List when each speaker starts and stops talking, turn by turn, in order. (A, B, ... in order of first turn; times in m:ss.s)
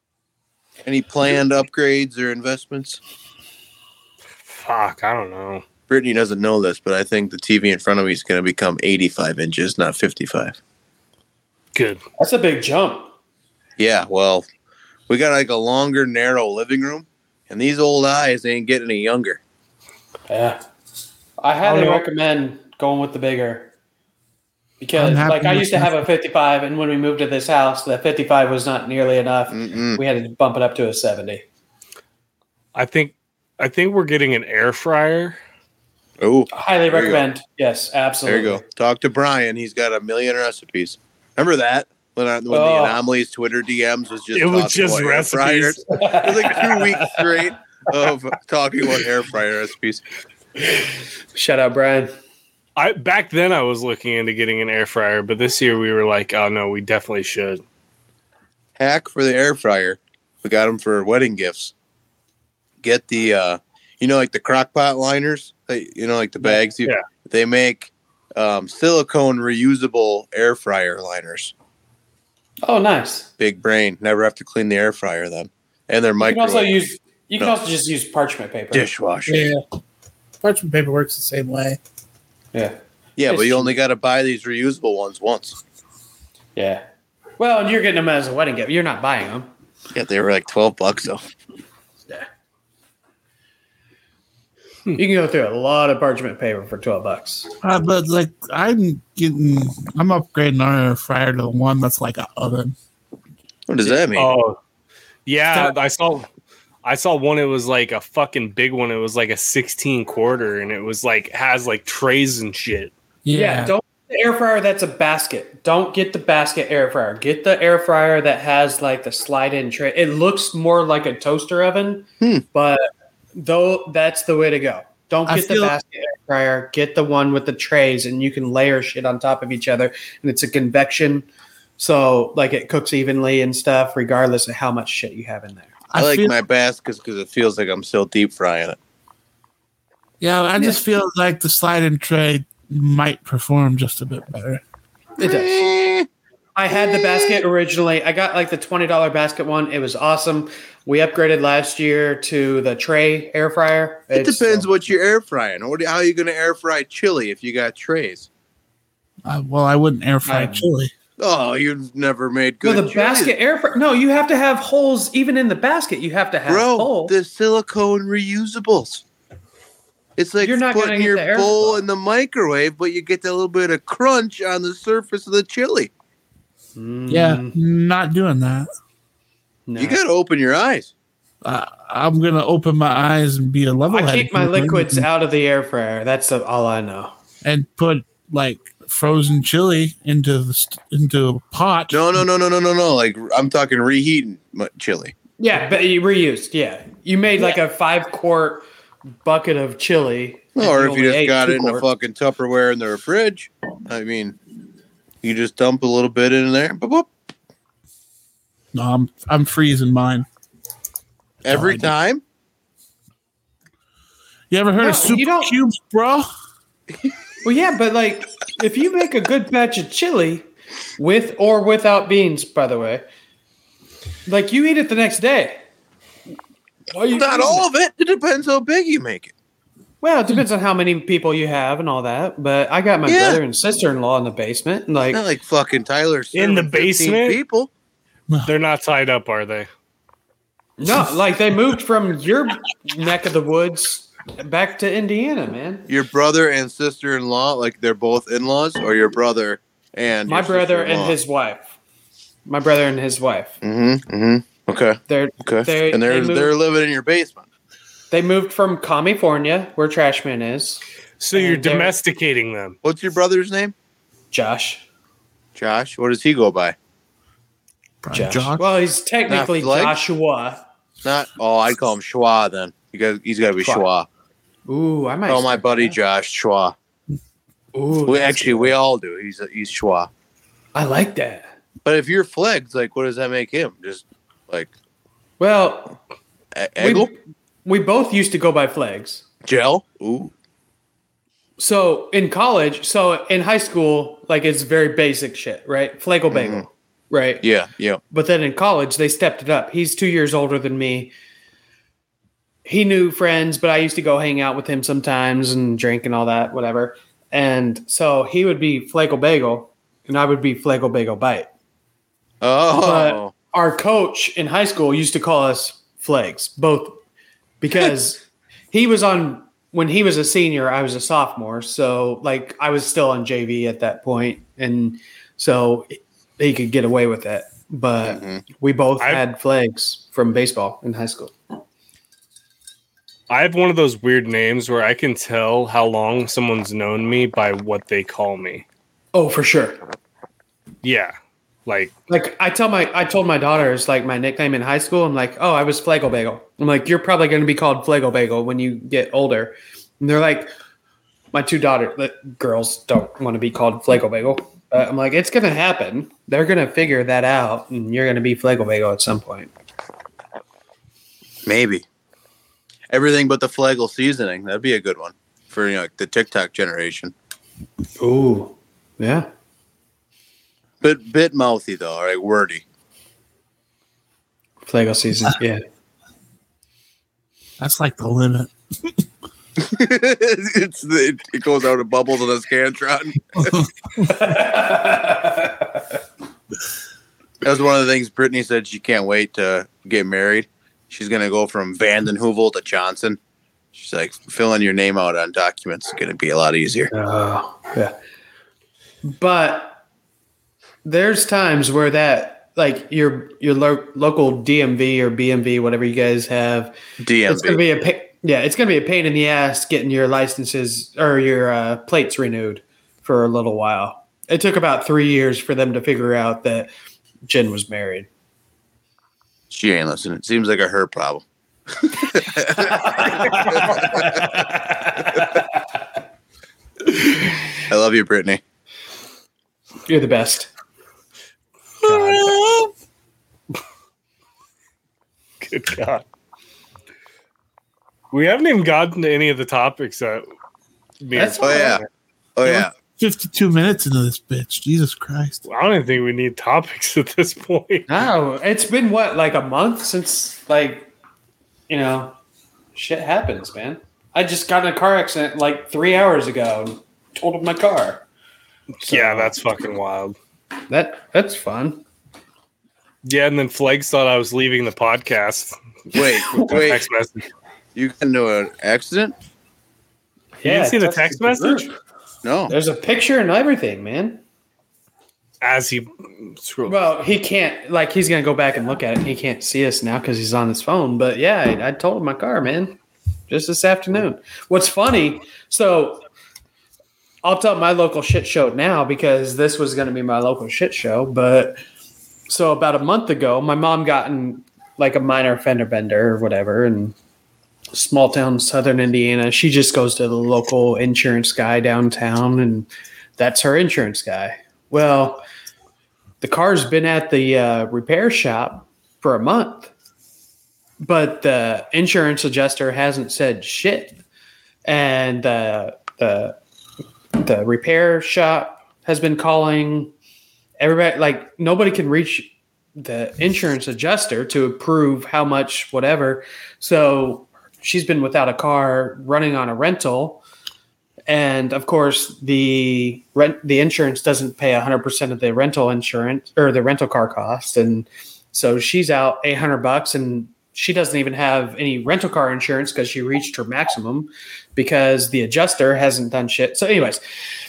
0:00.8-0:03.0 A
0:04.5-0:05.6 B
0:05.9-0:10.6 A
0:11.8-0:12.0 B
0:12.2-0:13.1 C
0:13.8-0:14.5 A
0:15.1-0:19.4 A
0:20.3-0:20.6 C
0:21.4-0:23.7 C
0:21.6-0:22.0 B
0:24.8-0:31.4 C
0:25.0-0:26.0 D
0:29.5-0:30.0 A
0:32.8-0:35.4 B
0:36.2-0:37.3 A
0:36.5-0:38.6 C
0:38.3-0:50.0 A
0:42.5-0:43.0 C
0:44.3-0:45.8 B
0:45.9-0:47.3 C
0:51.3-0:52.1 C
0:52.8-0:57.6 B
0:58.8-1:01.7 A
1:02.8-1:11.5 A
1:12.6-1:13.3 C
1:13.4-1:16.7 A
1:16.2-1:18.9 C
1:18.7-1:19.5 A
1:19.3-1:19.6 D
1:20.4-1:21.8 D
1:22.5-1:23.8 C
1:23.2-1:25.6 A
1:26.6-1:26.8 C
1:27.4-1:29.5 C
1:29.9-1:31.3 A
1:35.0-1:37.5 C
1:37.6-1:42.8 D
1:43.7-1:44.3 A
1:44.2-1:44.6 B
1:45.3-1:46.3 B
1:46.8-1:52.9 B
1:53.2-1:53.7 D
1:53.3-2:11.3 C
2:05.3-2:05.8 D
2:11.8-2:15.7 C
2:15.9-2:16.4 D
2:16.0-2:18.8 A
2:20.2-2:24.6 D
2:25.2-2:25.7 C
2:25.2-2:26.1 A
2:26.6-2:34.7 C
2:26.7-2:27.4 A
2:34.2-2:38.3 A
2:39.2-2:40.9 D
2:40.3-2:40.7 C
2:41.2-2:43.3 A
2:42.6-2:47.1 C
2:46.5-2:49.0 A
2:50.2-2:55.9 A
2:50.4-2:51.8 C
2:56.8-2:57.6 C
2:57.1-2:58.7 D
2:59.7-3:00.0 C
2:59.8-3:00.9 A
3:01.4-3:05.1 D
3:03.9-3:07.1 C
3:07.4-3:12.2 D
3:11.9-3:15.1 A
3:15.4-3:18.6 C
3:19.2-3:21.9 C
3:20.6-3:24.4 A
3:25.2-3:27.1 A
3:28.7-3:30.3 D
3:31.4-3:32.2 A
3:31.5-3:31.9 D
3:34.5-3:36.3 D
3:34.8-3:35.5 C
3:37.4-3:40.5 C
3:41.0-3:43.0 C
3:44.3-3:45.6 C
3:46.9-3:47.7 C
3:47.1-3:49.3 A
3:50.0-3:55.2 C
3:53.0-3:53.4 A
3:55.1-3:57.7 A
3:56.3-3:57.4 B
3:58.5-3:59.7 B
4:00.8-4:05.9 C
4:05.9-4:11.2 A
4:10.3-4:11.7 C
4:12.5-4:13.6 C
4:13.6-4:17.5 A
4:15.1-4:16.6 C
4:18.1-4:20.8 C
4:21.2-4:22.8 B
4:21.3-4:21.9 C
4:22.8-4:23.7 A
4:24.3-4:24.8 C
4:25.6-4:26.8 A
4:28.0-4:28.6 D
4:28.1-4:30.6 C
4:29.3-4:30.0 A
4:31.0-4:34.1 A
4:34.7-4:36.0 C
4:35.3-4:36.8 A
4:37.7-4:38.8 C
4:38.1-4:40.1 A
4:40.7-4:41.5 C
4:41.8-4:44.7 A
4:45.4-4:46.0 C
4:46.6-4:47.1 A
4:46.8-4:49.2 C
4:49.4-4:50.3 A
4:51.6-4:57.4 C
4:56.3-4:56.7 A
4:57.4-4:58.0 A
4:58.1-5:01.1 C
5:02.6-5:11.5 C
5:12.4-5:13.3 A
5:12.7-5:17.0 C
5:17.6-5:31.3 C
5:28.0-5:28.4 A
5:33.3-5:38.6 B
5:39.1-5:39.8 C
5:40.8-5:41.1 B
5:41.7-5:41.9 B
5:42.1-5:50.5 C
5:51.3-5:59.5 C
6:01.5-6:01.8 A
6:02.9-6:07.1 A
6:08.0-6:09.3 C
6:10.8-6:12.6 A
6:14.7-6:15.6 C
6:17.6-6:18.9 D
6:19.6-6:23.6 A
6:24.0-6:25.8 C
6:27.4-6:33.2 A
6:33.7-6:36.9 A
6:36.9-6:38.0 C
6:39.0-6:39.8 C
6:40.8-6:46.8 C
6:47.0-6:47.6 A
6:47.3-6:56.7 C
6:57.3-6:58.1 C
6:59.5-7:01.2 A
7:01.8-7:04.2 A
7:02.5-7:05.6 C
7:07.7-7:08.4 A
7:09.9-7:10.5 C
7:11.9-7:12.3 C
7:15.4-7:16.0 B
7:18.1-7:20.3 B
7:21.0-7:21.8 B
7:21.2-7:21.8 C
7:21.4-7:21.8 A
7:22.4-7:22.7 A
7:23.0-7:25.4 D
7:25.5-7:27.9 B
7:27.9-7:30.9 C
7:31.7-7:32.2 C
7:32.8-7:38.0 C
7:38.8-7:40.2 B
7:38.8-7:39.3 C
7:40.7-7:41.8 C
7:43.0-7:45.6 B
7:45.9-7:46.8 A
7:46.3-7:47.3 B
7:47.8-7:49.2 A
7:50.4-7:51.7 C
7:50.4-7:51.7 B
7:52.2-7:52.5 A
7:52.5-7:54.2 C
7:55.4-7:56.8 B
7:56.7-8:06.0 C
8:07.2-8:11.6 C
8:12.3-8:17.0 C
8:17.7-8:25.2 C
8:26.2-8:29.7 C
8:30.8-8:34.0 C
8:34.6-8:36.4 C
8:37.2-8:39.9 C
8:40.6-8:50.2 C
8:51.1-9:07.0 C